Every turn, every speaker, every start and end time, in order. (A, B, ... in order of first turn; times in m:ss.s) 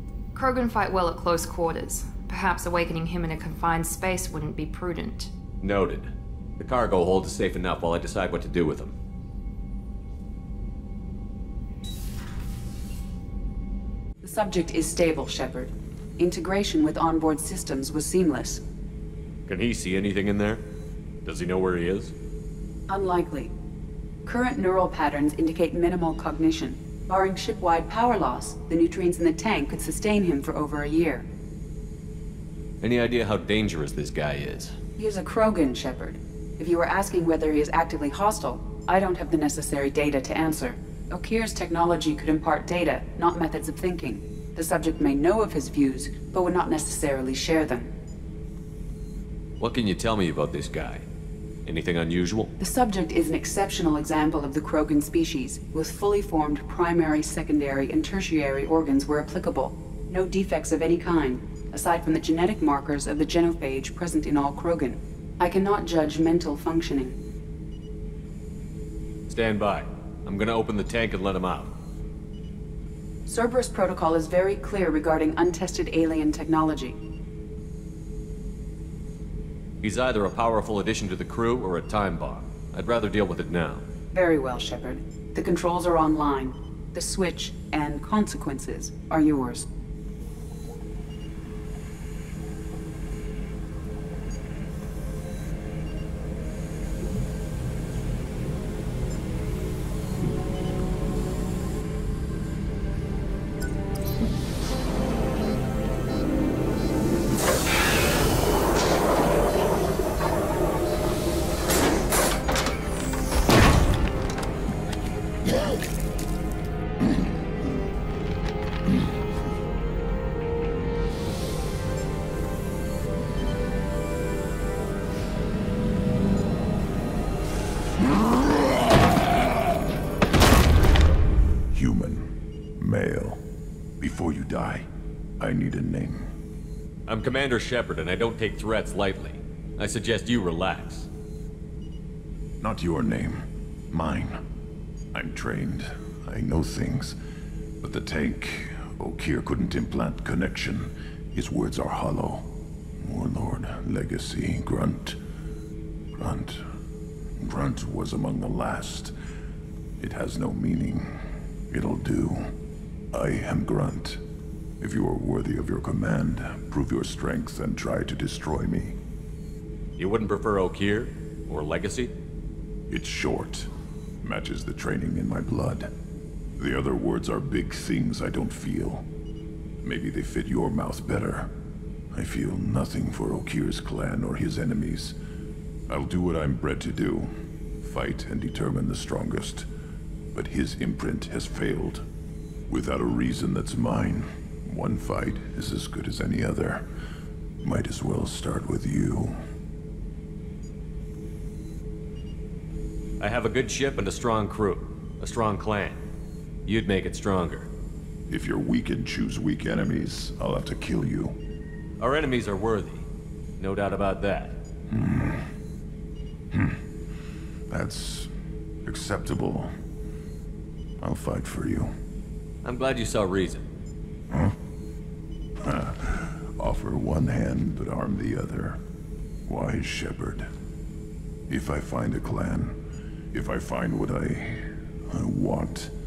0:00.3-0:05.3 A
0:05.6-0:08.9 B
0:14.2-0:18.6 C
0:19.5-0:20.6 B
0:21.2-0:22.1 B
0:22.9-0:23.5 C
0:24.2-0:31.2 C
0:32.8-0:34.8 B
0:35.0-0:47.9 C
0:49.6-0:51.0 B
0:51.6-0:52.5 B
0:52.6-1:07.1 C
1:09.3-1:11.7 B
1:13.3-1:17.0 C
1:19.8-1:23.8 B
1:24.1-1:29.6 C
2:11.7-2:13.4 D
2:14.0-2:14.9 D
2:15.4-2:16.2 D
2:17.1-2:21.1 B
2:22.6-2:24.4 D
2:25.1-2:27.2 D
2:27.8-2:35.2 D
2:36.2-2:36.6 D
2:37.4-2:39.1 D
2:40.0-2:41.1 D
2:41.7-2:42.5 D
2:43.1-2:44.2 D
2:44.8-2:49.0 D
2:50.0-2:52.1 B
2:52.9-2:53.7 D
2:54.2-2:55.9 D
2:56.6-2:59.0 D
2:59.8-3:01.5 D
3:02.1-3:05.2 D
3:05.9-3:07.3 D
3:07.8-3:09.7 D
3:10.3-3:12.0 D
3:12.7-3:16.8 D
3:17.6-3:19.3 D
3:23.2-3:26.0 B
3:26.6-3:27.7 B
3:28.3-3:31.3 D
3:32.0-3:33.0 B
3:33.6-3:34.6 B
3:34.9-3:35.4 D
3:37.7-3:38.3 D
3:38.8-3:39.7 D
3:41.0-3:41.9 D
3:42.6-3:43.7 B
3:45.6-3:48.8 D
3:49.4-3:50.5 D
3:51.5-3:52.8 D
3:53.3-3:55.9 D